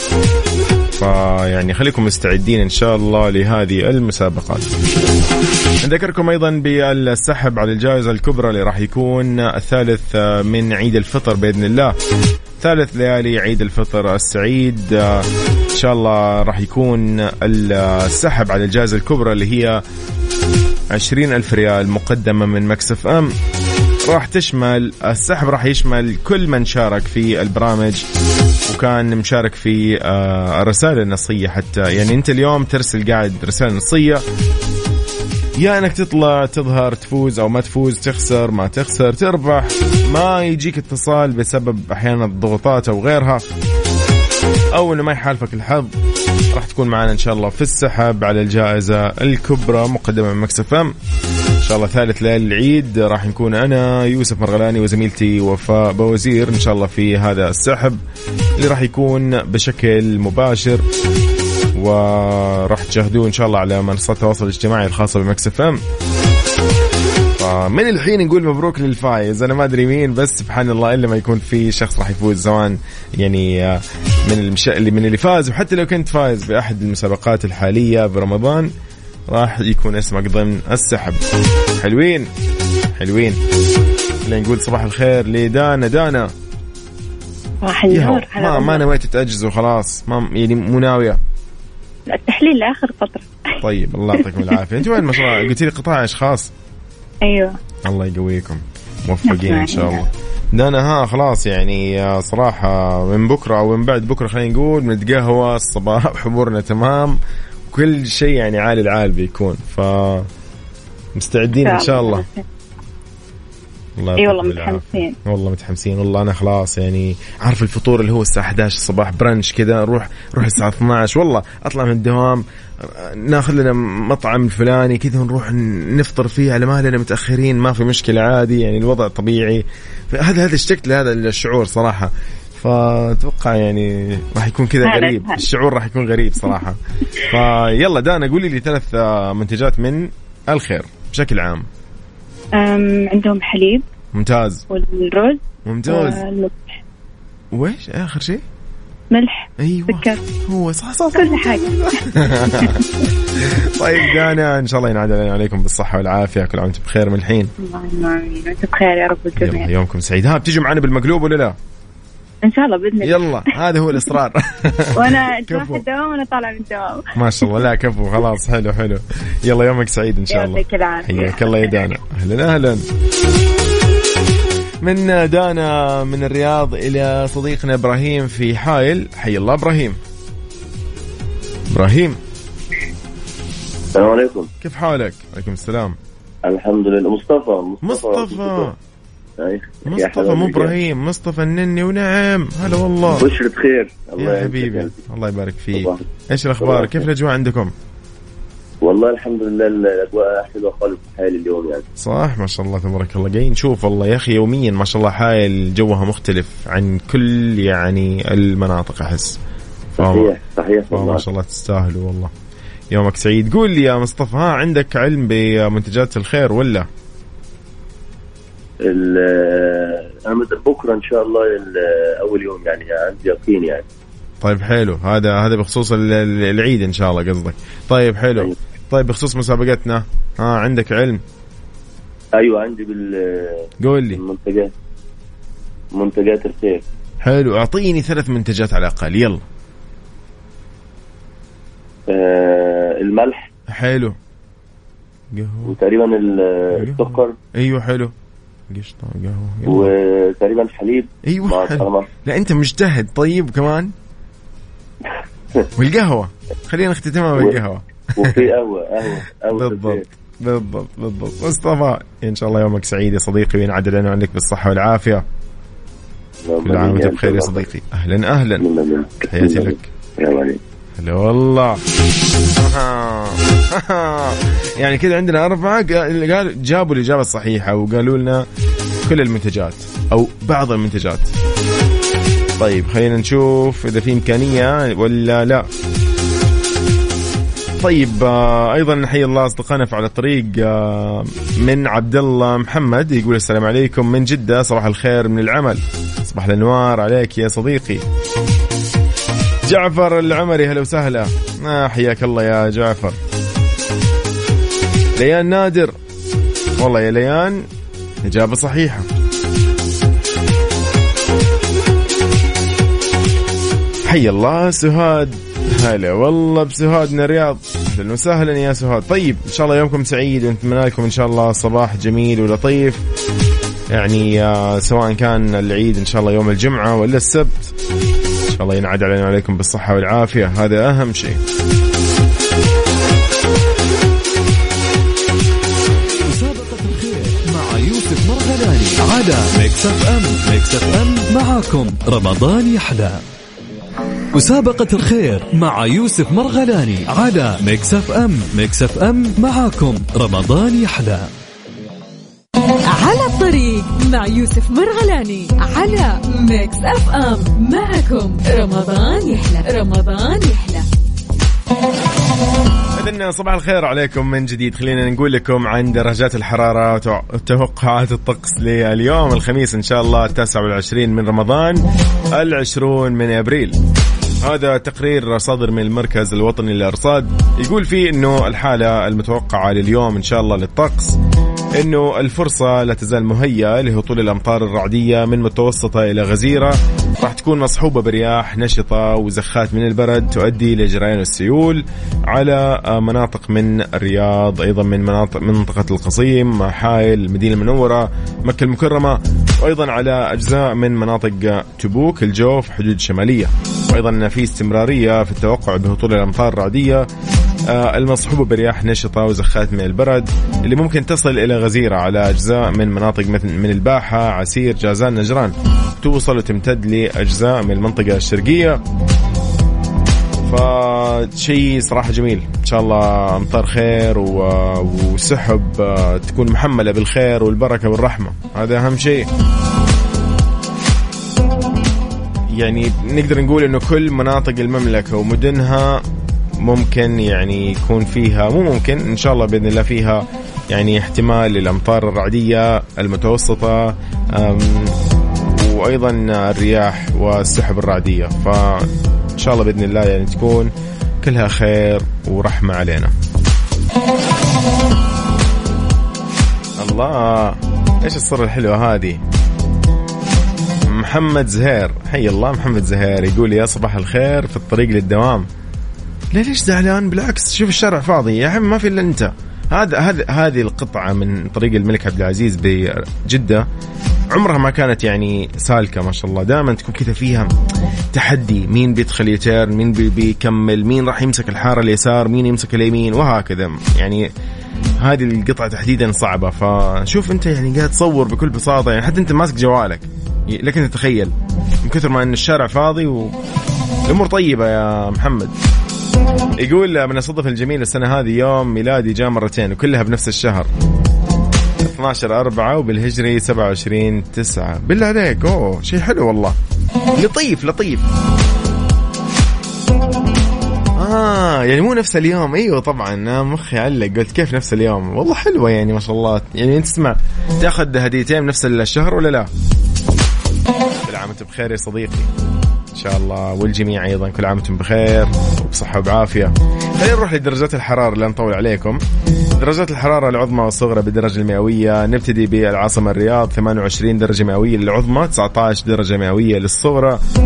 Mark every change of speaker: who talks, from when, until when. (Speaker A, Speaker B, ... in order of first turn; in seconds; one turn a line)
Speaker A: 0.9-4.7
Speaker A: 5.8-11.9
Speaker A: 12.6-19.8
Speaker A: 20.9-23.3
Speaker A: 24.1-28.0
Speaker A: 28.7-34.2
Speaker A: 35.6-43.5
Speaker A: 44.7-45.9
Speaker A: 46.5-50.9
Speaker A: 51.6-58.0
Speaker A: 58.6-60.9
Speaker A: 61.8-65.8
Speaker A: 67.4-78.7
Speaker A: 79.3-81.2
Speaker A: 81.8-82.3
Speaker A: 83.0-83.4
Speaker A: 84.2-86.3
Speaker B: 87.6-88.9
Speaker A: 87.9-91.2
Speaker B: 92.1-93.5
Speaker A: 93.6-96.5
Speaker B: 94.2-94.5
Speaker B: 95.0-95.3
Speaker B: 97.2-97.5
Speaker A: 97.8-110.3
Speaker B: 99.3-100.1
Speaker A: 111.2-112.2
Speaker B: 111.6-112.4
Speaker A: 114.0-141.7
Speaker B: 114.2-115.2
Speaker B: 134.8-135.4
Speaker B: 142.6-143.8
Speaker A: 144.1-144.6
Speaker B: 144.7-146.7
Speaker A: 145.7-146.2
Speaker A: 147.5-148.4
Speaker B: 149.1-150.2
Speaker A: 149.6-152.8
Speaker B: 151.1-152.8
Speaker A: 153.4-157.5
Speaker B: 157.6-159.7
Speaker A: 159.4-161.6
Speaker B: 162.4-164.1
Speaker A: 163.0-165.8
Speaker B: 165.0-167.6
Speaker A: 167.2-172.8
Speaker B: 170.3-171.9
Speaker A: 174.8-180.0
Speaker A: 181.7-182.2
Speaker C: 183.9-184.5
Speaker A: 184.6-186.0
Speaker C: 186.5-188.7
Speaker A: 187.8-188.8
Speaker C: 189.4-190.8
Speaker A: 189.9-193.3
Speaker C: 193.1-194.9
Speaker A: 194.2-197.7
Speaker C: 195.8-196.0
Speaker C: 196.6-197.1
Speaker C: 198.8-201.8
Speaker A: 202.0-209.4
Speaker A: 210.0-210.3
Speaker C: 210.0-211.2
Speaker A: 210.9-212.3
Speaker A: 212.9-216.9
Speaker C: 218.8-223.8
Speaker A: 224.4-231.2
Speaker C: 232.4-234.7
Speaker A: 233.8-234.2
Speaker C: 235.9-236.8
Speaker A: 237.2-239.4
Speaker C: 242.1-243.5
Speaker A: 243.7-244.2
Speaker A: 245.3-245.8
Speaker C: 245.7-247.3
Speaker A: 246.8-248.1
Speaker A: 248.7-249.9
Speaker C: 249.7-252.1
Speaker A: 251.2-253.9
Speaker A: 255.8-258.5
Speaker C: 258.2-260.0
Speaker A: 259.5-265.2
Speaker C: 266.5-267.6
Speaker A: 266.6-268.6
Speaker C: 268.6-270.6
Speaker A: 269.2-269.8
Speaker A: 271.0-271.8
Speaker A: 272.6-278.4
Speaker A: 279.1-281.3
Speaker A: 282.6-285.7
Speaker A: 287.8-298.0
Speaker A: 299.7-303.2
Speaker A: 305.2-305.9
Speaker A: 306.8-307.6
Speaker A: 308.2-309.1
Speaker A: 314.1-323.0
Speaker A: 323.9-327.7
Speaker A: 328.5-331.4
Speaker D: 336.3-343.2
Speaker D: 344.3-351.3
Speaker E: 352.9-360.9
Speaker A: 362.9-373.8
Speaker A: 374.4-381.2
Speaker A: 381.8-407.1
Speaker A: 407.7-418.8
Speaker A: 420.4-429.3
Speaker A: 432.6-436.0
Speaker A: 436.6-453.1
Speaker A: 456.8-459.2
Speaker A: 460.9-465.5
Speaker A: 466.3-473.7
Speaker A: 474.3-477.5
Speaker A: 478.1-484.3
Speaker A: 485.0-493.4
Speaker A: 494.1-495.6
Speaker A: 496.6-500.7
Speaker A: 501.8-506.6
Speaker A: 507.2-508.1
Speaker A: 511.0-519.5
Speaker A: 521.0-522.3
Speaker A: 522.9-529.0
Speaker A: 529.6-537.2